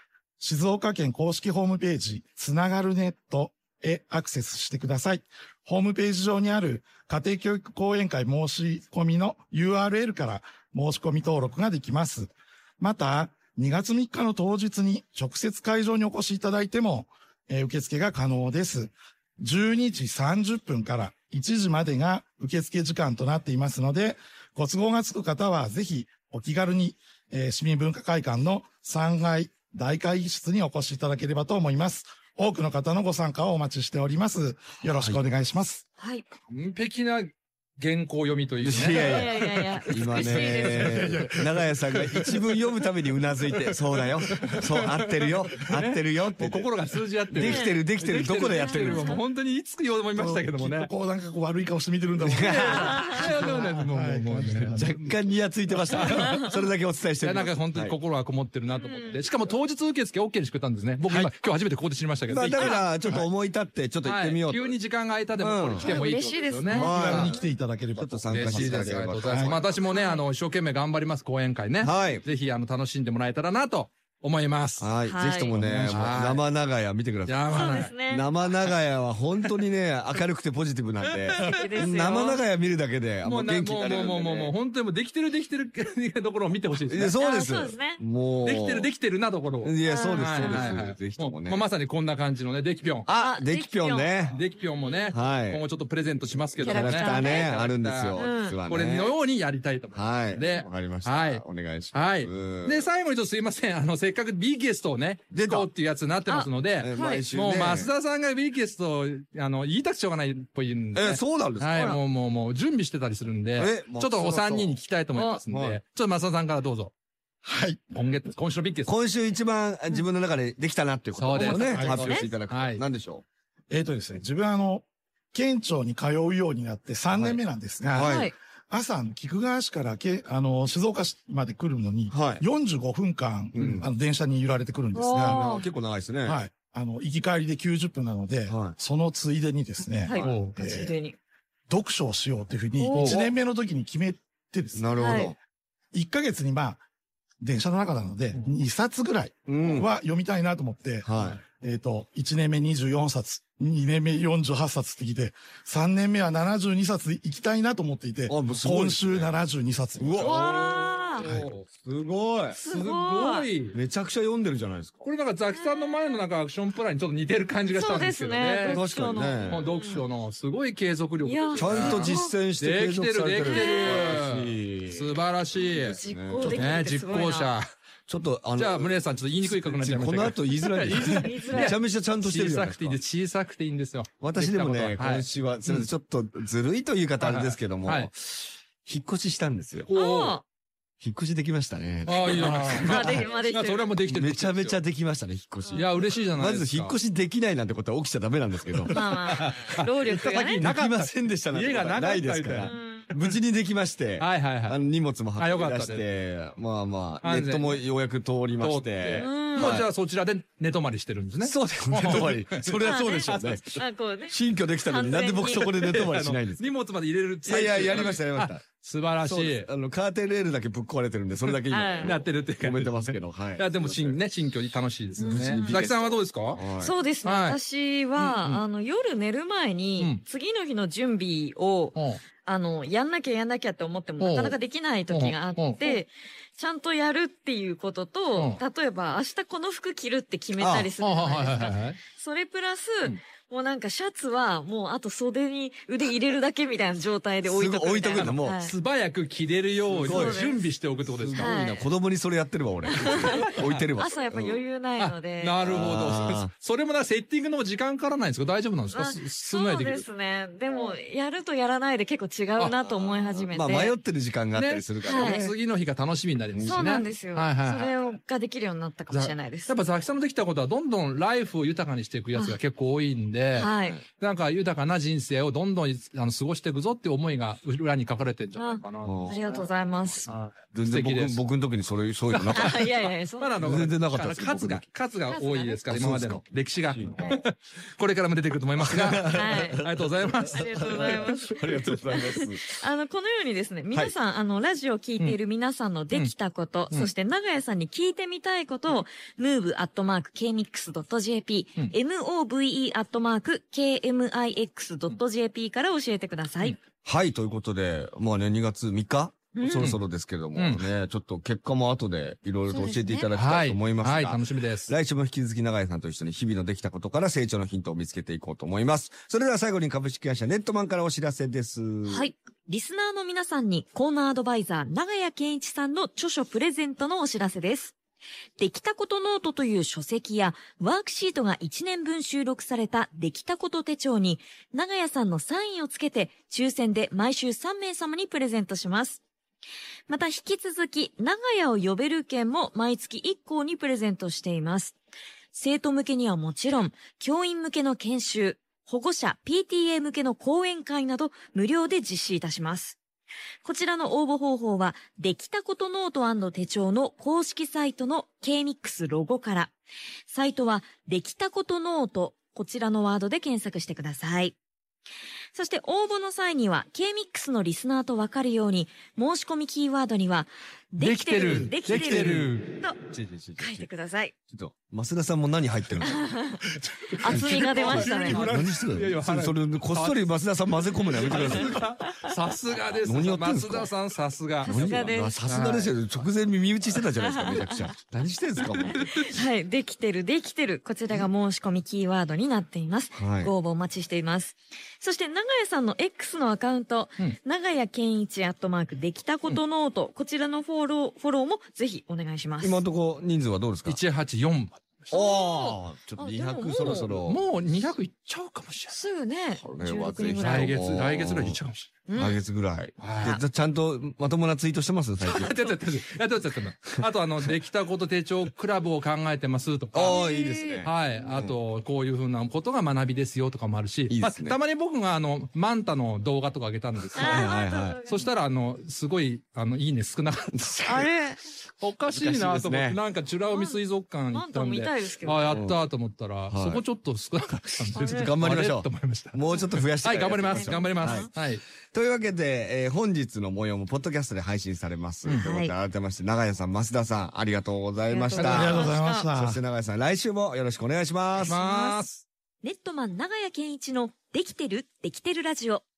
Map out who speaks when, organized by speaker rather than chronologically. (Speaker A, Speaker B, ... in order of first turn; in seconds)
Speaker A: 0.4-35.8, 40.8-41.5, 50.1-55.1, 66.7-69.6, 117.4-117.8, 121.3-122.2, 123.7-135.4, 136.2-140.9, 141.7-145.3, 145.9-146.8, 147.4-160.3, 161.2-161.5, 176.4-176.7, 192.4-192.8, 448.4-449.6
Speaker B: 34.9-35.2, 38.6-39.3, 39.9-46.7, 47.3-49.2, 52.2-53.2, 54.8-58.0, 61.1-61.3, 62.3-64.7, 65.4-66.0, 66.7-67.4, 67.9-69.8, 71.8-72.2, 74.8-84.5, 86.8-88.9, 89.6-91.7, 93.0-94.4, 95.1-95.6, 96.6-99.2, 99.9-102.9, 105.3-105.7, 106.8-107.9, 110.9-112.0, 113.6-114.8, 115.5-115.8, 118.8-123.2, 127.1-127.4, 127.9-128.3, 132.1-132.4, 133.5-133.9, 135.2-136.4, 138.5-138.8, 140.1-140.3, 143.0-143.3, 144.7-145.3, 149.5-149.9, 151.0-151.4, 158.3-159.4, 160.0-160.7, 161.7-162.6, 163.7-165.0, 168.6-169.7, 171.6-176.7, 178.1-183.0, 184.2-188.1, 188.8-189.9, 191.0-193.3, 194.1-199.0, 200.1-209.9, 211.4-216.6, 217.4-218.6, 219.2-224.2, 225.2-226.9, 240.6-240.9, 247.4-248.6, 249.9-254.6, 255.6-256.5, 262.8-265.5, 266.5-267.1, 279.0-279.4, 280.7-282.8, 283.6-284.9, 285.9-287.4, 288.8-292.7, 307.0-322.3, 371.9-372.5, 373.1-373.9, 374.5-376.2, 377.3-381.9, 383.0-383.9, 384.6-389.0, 393.1-393.5, 402.6-404.0, 405.1-407.5, 409.6-411.6, 412.1-415.8, 419.9-421.6, 424.1-424.6, 427.1-428.0, 430.6-431.1, 432.1-433.0, 435.5-435.8, 436.5-436.8, 437.9-441.3, 441.9-451.6
Speaker C: 36.0-36.2, 39.0-40.9, 47.4-47.8, 48.4-49.2, 52.8-53.1, 58.7-59.2, 65.8-66.9, 69.9-70.2, 75.0-75.5, 77.5-78.3, 81.4-82.4, 87.2-88.0, 89.8-90.8, 93.2-94.1, 96.5-97.5, 98.1-98.6, 106.3-107.2, 115.1-115.4, 128.0-128.3, 134.9-135.7, 140.0-141.2, 142.8-143.2, 145.0-145.3, 160.2-161.2, 162.6-163.5, 165.5-166.2, 167.7-170.0, 171.2-172.3, 173.4-174.1, 175.9-177.5, 181.1-181.8, 189.9-190.4, 192.6-193.9, 198.9-200.7, 202.6-203.1, 209.2-209.8, 212.8-215.9, 221.7-222.2, 225.2-225.8, 226.8-248.7, 250.0-250.6, 251.3-251.9, 252.8-255.7, 258.9-263.9, 265.0-265.4, 266.6-269.7, 273.5-274.0, 278.6-280.3, 282.5-283.6, 285.3-285.8, 289.3-289.8, 290.5-306.8, 309.5-309.9, 312.7-313.3, 322.1-327.9, 328.6-339.2, 340.1-344.9, 345.5-353.0, 353.6-359.7, 360.3-364.6, 365.5-373.0, 373.6-374.3, 376.0-376.6, 377.2-378.5, 381.8-382.1, 384.6-385.7, 387.2-387.7, 389.2-402.8, 405.1-407.1, 408.9-410.7, 412.1-412.4, 420.1-420.9, 427.1-428.3, 430.9-431.4, 433.5-435.6, 437.9-438.3, 440.5-441.3, 445.3-445.7, 448.1-449.3, 451.4-452.0, 452.6-455.8
Speaker D: 36.5-41.2, 41.9-42.5, 43.4-43.7, 44.3-50.9, 52.3-54.8, 55.8-56.5, 57.2-63.1, 64.0-67.4, 68.3-74.9, 75.6-76.4, 77.3-77.9, 81.0-81.9, 83.2-87.2, 88.4-93.1, 94.3-116.9, 117.9-118.9, 121.1-122.8, 133.6-133.8, 140.2-140.6, 160.1-161.7, 162.5-163.8, 165.0-168.9, 169.4-177.7, 178.5-185.9, 187.2-188.1, 189.8-190.4, 192.0-194.8, 195.7-197.0, 198.8-203.4, 204.2-204.8, 205.3-206.1, 207.2-207.9, 208.6-213.8, 215.5-219.7, 222.0-226.6, 227.2-227.6, 228.2-228.6, 231.9-232.2, 234.2-234.6, 235.1-236.0, 238.3-238.6, 241.0-242.0, 248.1-251.6, 253.0-253.8, 255.0-260.1, 264.5-267.9, 269.1-279.6, 280.2-281.4, 282.3-291.6, 309.8-310.0, 310.5-310.9, 313.3-314.9, 371.0-372.7, 377.0-386.0, 388.8-389.4, 403.9-405.1, 406.8-409.0, 410.4-411.9, 413.0-413.4, 415.2-420.2, 420.9-430.6, 431.6-441.6, 451.5-452.2